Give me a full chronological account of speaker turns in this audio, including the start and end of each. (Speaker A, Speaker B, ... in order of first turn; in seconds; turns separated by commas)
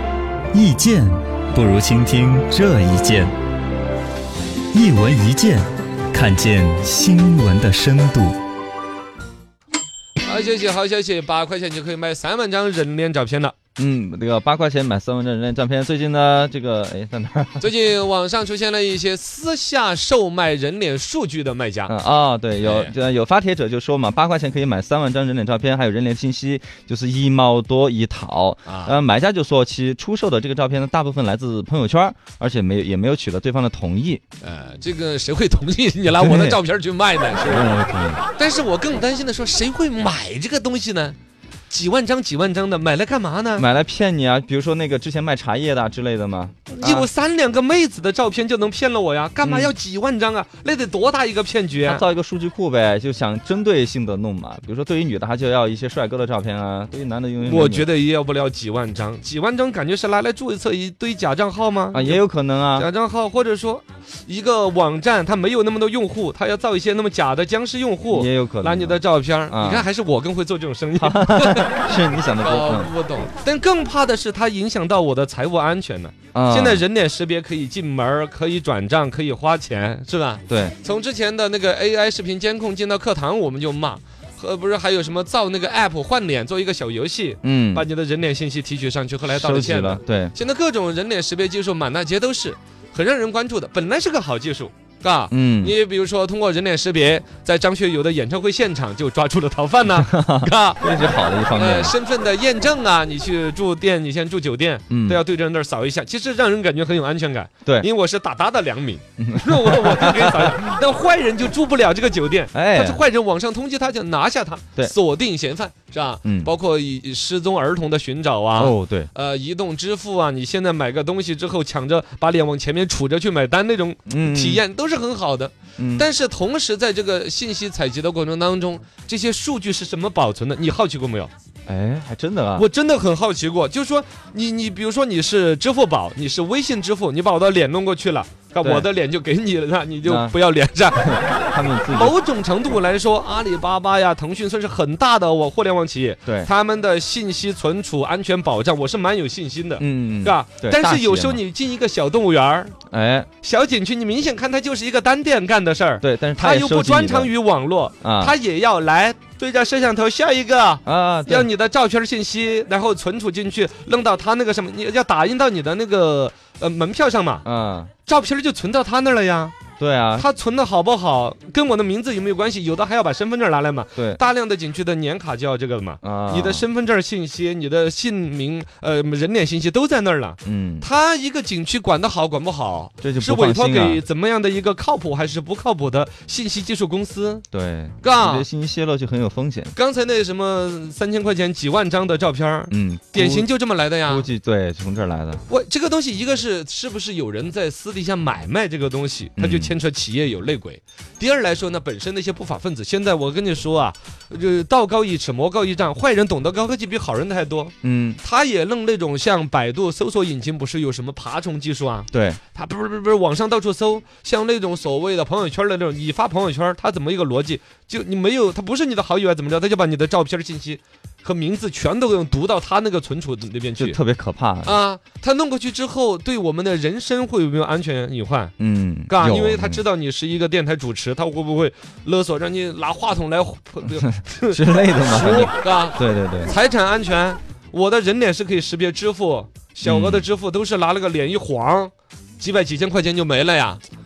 Speaker A: 0.5-3.3, Speaker A: 4.7-8.4, Speaker B: 10.2-13.5, Speaker C: 13.8-17.7, Speaker B: 17.6-21.9, Speaker C: 21.9-34.2, Speaker B: 22.6-22.9, Speaker B: 28.6-28.9, Speaker B: 34.4-41.2, Speaker C: 36.1-36.6, Speaker C: 37.5-38.2, Speaker B: 41.7-43.7, Speaker C: 43.5-47.1, Speaker B: 46.7-52.0, Speaker C: 49.4-49.7, Speaker C: 51.9-57.9, Speaker B: 57.4-62.2, Speaker C: 61.9-62.9, Speaker B: 62.8-71.8, Speaker C: 68.1-69.8, Speaker C: 71.0-72.9, Speaker B: 72.4-100.8, Speaker C: 76.3-76.8, Speaker C: 80.5-80.7, Speaker C: 87.4-87.8, Speaker C: 89.2-90.3, Speaker C: 95.3-95.7, Speaker C: 99.9-101.9, Speaker B: 101.5-131.3, Speaker C: 104.9-105.2, Speaker C: 109.2-110.5, Speaker C: 112.5-113.0, Speaker C: 116.2-116.5, Speaker C: 118.5-119.1, Speaker C: 124.1-124.6, Speaker C: 125.8-126.1, Speaker C: 131.7-132.6, Speaker B: 132.6-141.2, Speaker C: 138.6-138.9, Speaker C: 140.0-140.3, Speaker C: 141.0-142.2, Speaker B: 141.9-152.7, Speaker C: 146.2-146.5, Speaker C: 149.8-151.4, Speaker C: 152.9-153.3, Speaker B: 153.4-167.4, Speaker C: 156.0-157.3, Speaker C: 158.0-158.3, Speaker C: 160.8-161.5, Speaker C: 167.4-167.9, Speaker B: 168.0-169.6, Speaker C: 169.8-170.3, Speaker B: 170.2-187.4, Speaker C: 176.0-176.7, Speaker C: 180.4-180.9, Speaker C: 183.0-184.0, Speaker C: 187.5-189.7, Speaker B: 188.0-188.5, Speaker B: 189.7-194.3, Speaker C: 192.7-193.5, Speaker C: 194.1-195.4, Speaker B: 195.5-224.0, Speaker C: 199.4-199.7, Speaker C: 207.8-208.2, Speaker C: 212.1-212.4, Speaker C: 223.8-224.8, Speaker B: 224.6-228.5, Speaker C: 228.6-229.8, Speaker B: 229.1-243.8, Speaker C: 233.9-236.5, Speaker C: 239.8-240.3